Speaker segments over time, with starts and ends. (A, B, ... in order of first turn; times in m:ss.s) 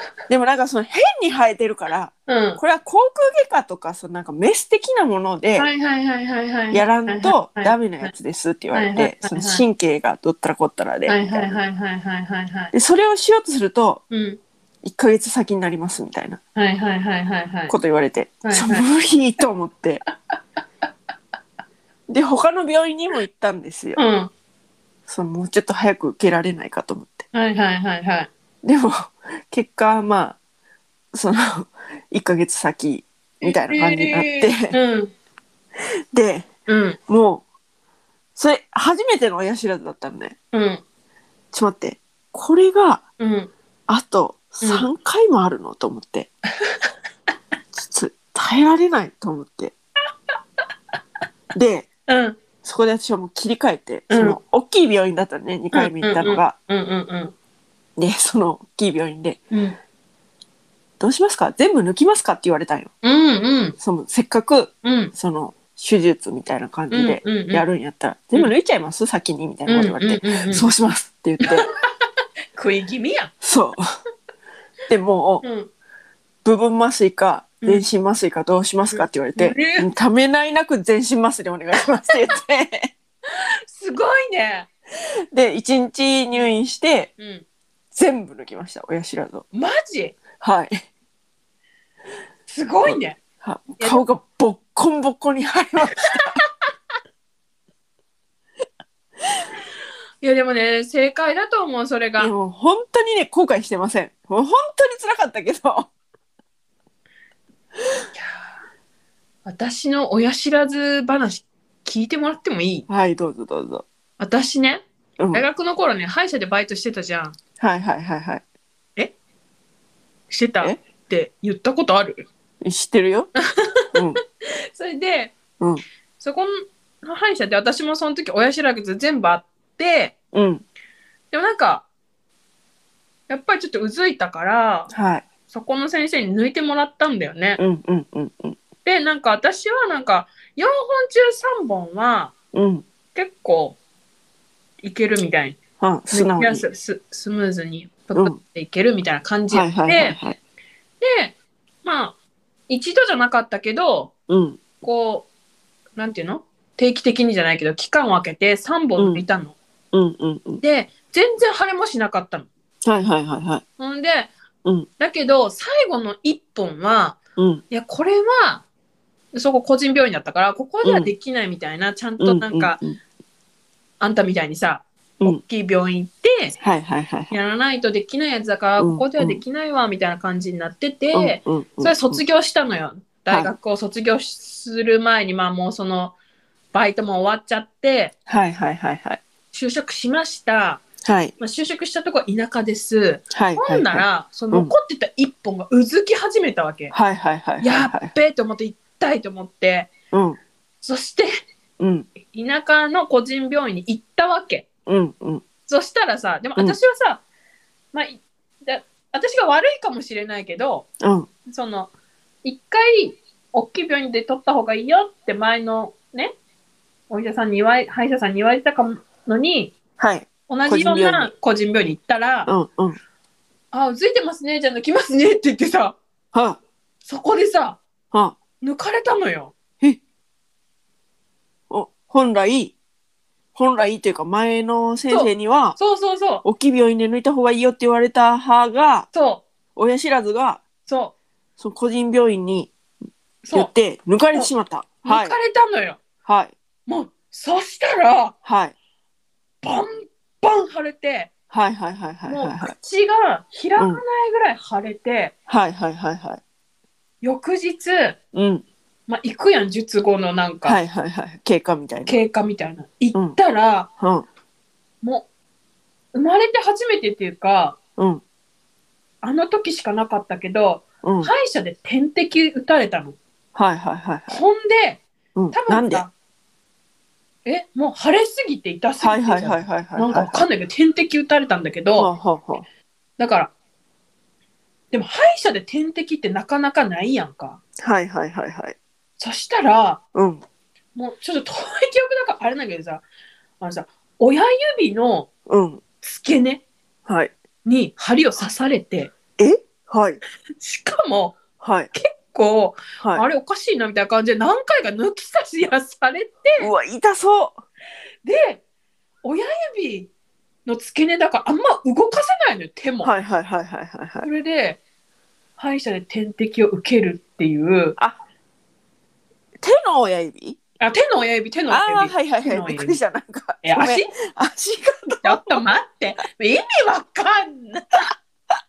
0:00.3-0:05.7 A
0:02.3-0:02.6 B
0:05.6-0:08.1 B
0:06.7-0:11.6 A
0:08.7-0:09.6 B
0:11.1-0:12.7 B
0:12.7-0:14.0 A
0:14.1-0:14.4 B
0:14.8-0:16.4 A
0:16.6-0:17.7 B
0:17.7-0:20.0 A
0:18.4-0:18.8 B
0:22.1-0:24.0 A
0:24.0-0:24.3 B
0:25.1-0:27.2 A
0:27.3-0:28.3 B
0:28.6-0:30.4 A
0:31.1-0:34.8 A
0:33.4-0:35.1 B
0:36.1-0:36.5 A
0:36.7-0:37.0 B
0:37.1-0:37.4 A
0:38.4-0:40.4 A
0:40.5-0:40.8 B
0:41.5-0:43.0 A
0:43.2-0:43.5 B
0:43.9-0:46.3 A
0:44.6-0:44.9 B
0:47.8-0:49.7 A
0:51.5-0:51.9 A
0:52.1-0:52.4 B
0:52.6-0:56.5 A
0:54.1-0:54.4 B
0:55.7-0:57.3 B
0:58.0-0:59.4 A
0:59.5-0:59.8 B
1:01.0-1:02.9 A
1:03.0-1:03.8 B
1:03.8-1:11.7 A
1:04.8-1:05.1 B
1:06.9-1:07.6 B
1:09.7-1:10.7 B
1:12.5-1:13.3 B
1:13.4-1:13.8 A
1:14.9-1:15.4 A
1:15.4-1:15.7 B
1:16.4-1:22.9 A
1:17.6-1:17.8 B
1:18.9-1:19.9 B
1:23.3-1:24.7 B
1:25.3-1:27.1 A
1:27.2-1:27.4 B
1:27.9-1:29.4 A
1:29.5-1:30.2 B
1:30.4-1:30.8 A
1:32.5-1:33.2 B
1:32.8-1:36.4 A
1:33.8-1:34.0 B
1:36.0-1:36.4 B
1:40.2-1:42.3 B
1:42.2-1:45.9 A
1:48.1-1:48.5 B
1:49.4-1:52.9 B
1:52.9-1:53.8 A
1:54.2-1:57.4 B
1:55.2-1:55.4 A
1:57.6-1:58.4 A
2:00.3-2:02.2 B
2:02.6-2:03.3 A
2:03.6-2:05.3 B
2:03.9-2:04.2 A
2:06.2-2:10.1 B
2:10.3-2:10.6 A
2:11.3-2:11.9 B
2:13.3-2:14.9 B
2:14.9-2:15.2 A
2:15.5-2:17.6 B
2:17.6-2:18.6 A
2:18.8-2:22.3 B
2:22.5-2:22.8 A
2:23.1-2:23.8 B
2:24.8-2:25.6 B
2:25.8-2:26.6 A
2:26.1-2:30.2 B
2:29.5-2:30.4 A
2:31.0-2:32.2 B
2:32.7-2:34.1 B
2:34.3-2:34.6 A
2:34.8-2:35.3 B
2:36.0-2:39.6 B
2:39.0-2:39.2 A
2:39.9-2:40.6 A
2:40.6-2:42.5 B
2:42.8-2:43.6 A
2:43.8-2:44.3 B
2:45.0-2:47.2 B
2:47.4-2:47.6 A
2:47.7-2:48.6 B
2:49.3-2:52.8 B
2:50.8-2:51.1 A
2:52.2-2:53.0 A
2:54.0-2:56.6 B
2:56.6-2:57.3 A
2:57.3-3:06.2 B
2:58.8-2:59.4 A
3:01.1-3:02.2 A
3:06.7-3:08.1 B
3:08.3-3:09.2 A
3:09.5-3:10.8 B
3:11.0-3:11.3 A
3:11.4-3:16.9 B
3:13.3-3:14.7 A
3:16.9-3:18.1 A
3:17.6-3:19.9 B
3:20.1-3:20.4 A
3:20.8-3:21.3 B
3:21.8-3:22.1 A
3:22.2-3:24.7 B
3:24.9-3:25.4 A
3:25.7-3:27.2 B
3:27.9-3:30.9 B
3:31.0-3:31.3 A
3:31.4-3:31.9 B
3:32.4-3:36.3 B
3:37.1-3:39.7 B
3:40.0-3:41.3 A
3:40.5-3:42.5 B
3:42.4-3:43.0 A
3:43.7-3:46.0 B
3:46.3-3:46.6 A
3:47.0-3:47.8 B
3:48.1-3:48.4 A
3:48.6-3:49.5 B
3:51.7-3:52.8 A
3:53.5-3:55.8 A
3:55.1-3:56.4 B
3:56.4-3:59.1 A
3:59.1-3:59.4 B
3:59.8-4:00.6 A
4:00.8-4:01.1 B
4:01.6-4:02.7 A
4:03.4-4:03.7 B
4:03.5-4:05.4 A
4:05.0-4:06.0 B
4:06.2-4:06.5 A
4:06.9-4:08.3 B
4:08.4-4:08.7 A
4:09.6-4:11.3 B
4:11.5-4:12.7 A
4:12.3-4:15.3 B
4:13.8-4:14.0 A
4:15.5-4:16.4 A
4:17.2-4:18.2 B
4:18.3-4:18.6 A
4:19.1-4:20.8 B
4:20.6-4:22.2 A
4:22.0-4:23.9 B
4:24.0-4:24.3 A
4:25.0-4:25.3 B
4:26.1-4:27.8 B
4:28.0-4:28.2 A
4:29.2-4:33.2 B
4:31.0-4:31.3 A
4:33.5-4:34.4 A
4:34.3-4:36.1 B
4:35.3-4:36.0 A
4:37.4-4:42.1 B
4:39.0-4:40.4 A
4:42.0-4:42.6 A
4:43.2-4:43.5 B
4:44.9-4:47.6 B
4:47.8-4:48.8 A
4:49.2-4:50.0 B
4:50.1-4:50.4 A
4:50.9-4:53.0 B
4:53.6-4:55.3 B
4:55.5-4:55.8 A
4:56.0-4:56.6 B
4:57.0-4:57.3 A
4:57.6-4:59.1 B
4:59.4-5:00.2 A
5:00.6-5:01.4 B
5:01.6-5:01.9 A
5:01.9-5:06.7 B
5:03.0-5:03.2 A
5:06.6-5:07.6 A
5:08.2-5:08.6 B
5:09.2-5:10.1 B
5:10.6-5:13.1 B
5:13.0-5:14.3 A
5:14.2-5:14.8 B
5:15.6-5:18.0 B
5:19.6-5:20.6 A
5:20.8-5:23.0 B
5:21.7-5:25.6 A
5:23.6-5:24.1 B
5:25.2-5:28.1 B